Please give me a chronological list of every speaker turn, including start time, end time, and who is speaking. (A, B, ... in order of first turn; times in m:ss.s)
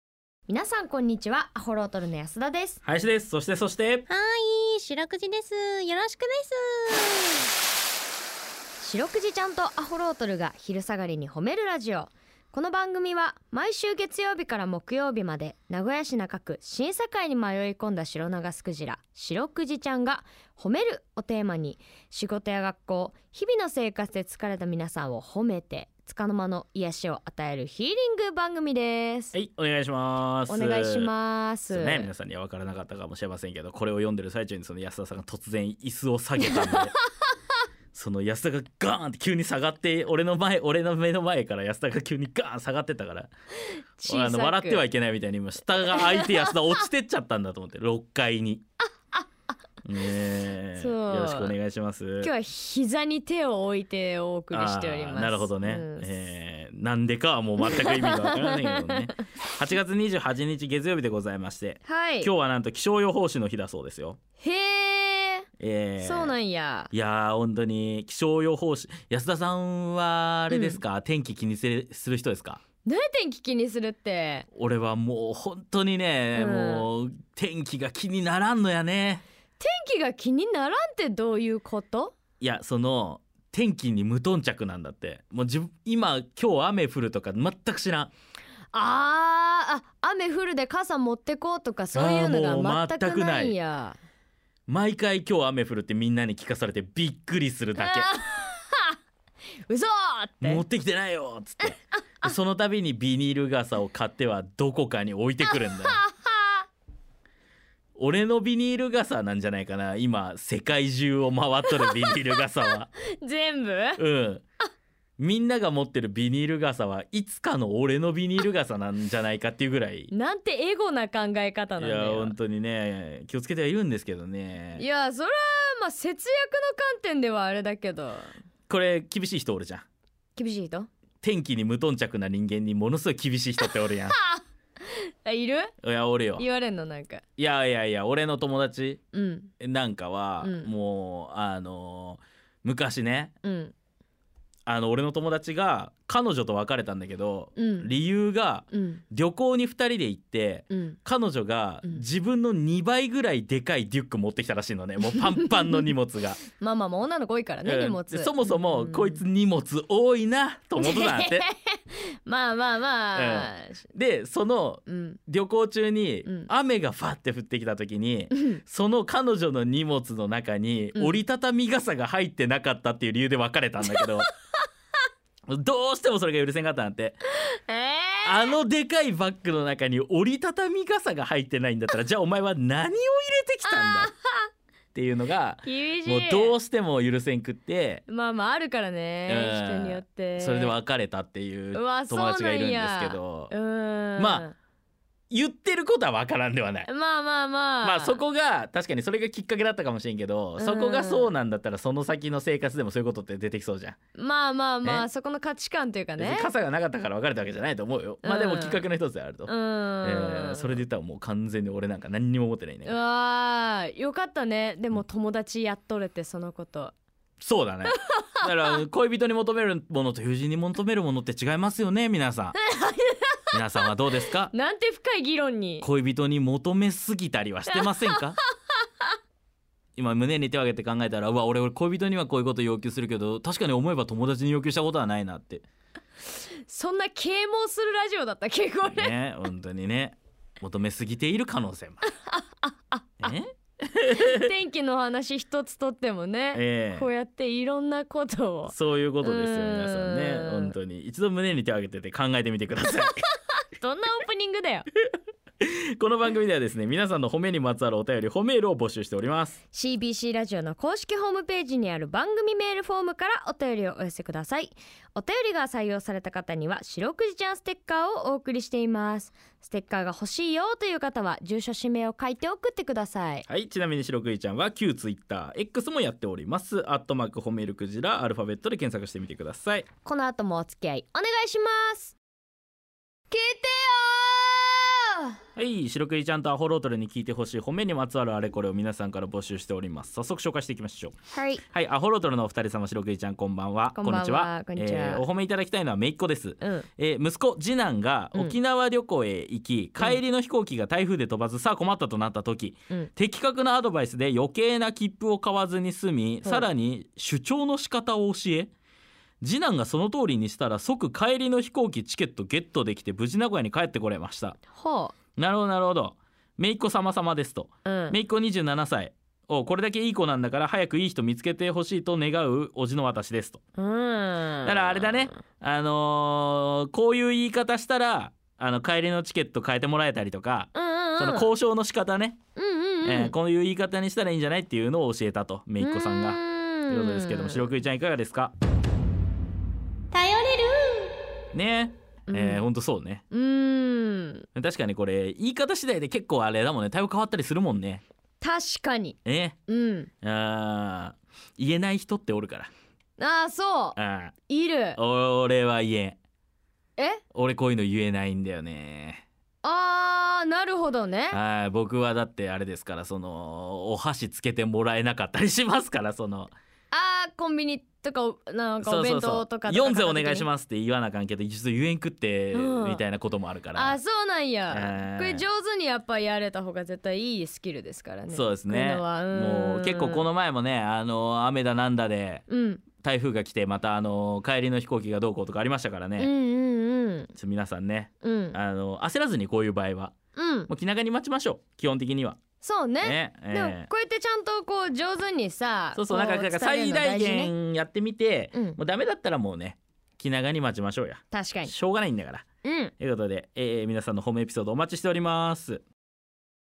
0:00.5-0:02.8 A
0:02.8-0:04.1 B
0:04.1-0:07.5 C
0:08.8-0:29.3 A
0:29.3-0:31.1 B
0:30.5-0:32.1 A
0:31.7-0:36.9 B
0:36.5-0:36.8 A
0:37.9-0:43.3 B
0:43.7-0:44.8 A
0:44.1-0:48.6 B
0:45.9-0:46.6 A
0:49.8-0:52.3 B
0:50.8-0:51.6 A
0:52.2-0:56.1 A
0:54.5-1:04.2 B
0:57.6-0:59.2 A
1:01.8-1:02.3 A
1:04.4-1:05.5 A
1:05.6-1:06.4 B
1:06.0-1:06.9 A
1:06.9-1:12.6 B
1:10.5-1:10.8 A
1:12.8-1:14.5 A
1:14.5-1:19.2 B
1:16.3-1:16.9 A
1:19.6-1:22.2 A
1:22.4-1:28.1 B
1:28.7-1:34.0 A
1:31.9-1:33.6 B
1:34.7-1:38.1 B
1:37.8-1:39.0 A
1:39.7-1:40.6 A
1:40.4-1:46.0 B
1:45.5-1:46.6 A
1:48.0-1:52.9 B
1:51.6-1:54.0 A
1:54.0-1:54.4 B
1:55.2-2:00.1 B
2:00.1-2:02.4 A
2:01.8-2:04.8 B
2:04.8-2:08.3 A
2:08.7-2:09.8 B
2:10.4-2:10.9 A
2:11.2-2:14.2 B
2:13.6-2:15.8 A
2:15.8-2:16.4 B
2:16.4-2:17.2 A
2:17.4-2:19.0 B
2:19.1-2:19.5 A
2:19.6-2:23.3 B
2:20.4-2:20.7 A
2:23.4-2:23.7 A
2:24.7-2:36.4 B
2:27.6-2:27.9 A
2:28.7-2:29.0 A
2:30.7-2:31.0 A
2:35.1-2:35.9 A
2:36.6-2:39.2 A
2:37.6-2:41.5 B
2:40.8-2:43.8 A
2:43.2-2:54.3 B
2:44.9-2:45.2 A
2:48.3-2:48.6 A
2:51.0-2:51.2 A
2:53.9-2:54.3 A
2:55.5-2:57.2 B
2:57.5-2:58.6 A
2:58.2-3:04.1 B
3:03.7-3:04.5 A
3:04.9-3:08.0 B
3:05.6-3:06.6 A
3:08.1-3:10.8 A
3:09.3-3:13.5 B
3:11.7-3:14.6 A
3:14.2-3:14.5 B
3:15.3-3:16.9 B
3:16.9-3:18.2 A
3:17.8-3:24.0 B
3:20.6-3:21.3 A
3:24.2-3:26.5 A
3:26.2-3:33.0 B
3:28.2-3:28.8 A
3:29.5-3:30.8 A
3:32.9-3:37.0 A
3:37.4-3:42.6 B
3:37.9-3:38.5 A
3:42.6-3:43.8 A
3:43.5-3:44.5 B
3:44.5-3:45.9 A
3:45.8-3:48.4 B
3:47.7-3:48.2 A
3:50.0-3:55.6 B
3:56.7-3:59.1 A
3:58.9-4:02.0 B
4:02.3-4:03.3 A
4:03.2-4:04.5 B
4:04.2-4:10.8 A
4:06.5-4:07.1 B
4:08.7-4:13.2 B
4:13.0-4:14.9 A
4:15.6-4:19.6 B
4:19.7-4:33.5 A
4:33.5-4:39.9 B
4:40.0-4:42.2 A
4:43.3-4:45.4 A
4:45.6-4:51.2 B
4:51.3-4:51.6 A
4:51.7-5:08.7 B
4:53.9-4:55.2 A
4:56.6-4:56.9 A
5:09.4-5:14.6 B
5:14.7-5:15.2 A
5:15.4-5:23.6 B
5:17.8-5:18.2 A
5:23.8-5:25.3 A
5:24.6-5:32.4 B
5:30.7-5:31.5 A
5:32.6-5:33.3 A
5:33.0-5:38.5 B
5:35.8-5:37.7 A
5:40.1-5:41.1 C
5:41.5-5:43.2 B
5:42.3-5:42.6 A
5:43.3-5:44.5 A
5:44.6-5:48.0 B
5:48.4-5:50.1 A
5:49.2-5:49.6 B
5:50.2-5:52.7 B
5:53.2-5:54.0 A
5:54.0-5:54.3 B
5:54.5-5:55.0 A
5:55.0-5:56.2 B
5:57.0-5:57.2 A
5:57.3-5:59.2 B
5:59.6-6:01.4 A
6:01.3-6:06.5 B
6:06.9-6:10.5 A
6:08.8-6:14.0 B
6:12.5-6:13.0 A
6:13.7-6:20.3 A
6:14.7-6:15.5 B
6:18.3-6:22.4 B
6:22.5-6:22.8 A
6:23.0-6:26.3 B
6:26.2-6:27.3 A
6:27.4-6:30.1 B
6:28.2-6:28.6 A
6:30.4-6:30.7 A
6:30.7-6:32.4 B
6:32.6-6:37.5 A
6:33.0-6:33.9 B
6:36.0-6:42.4 B
6:41.3-6:41.7 A
6:42.6-6:42.9 A
6:43.0-6:45.8 B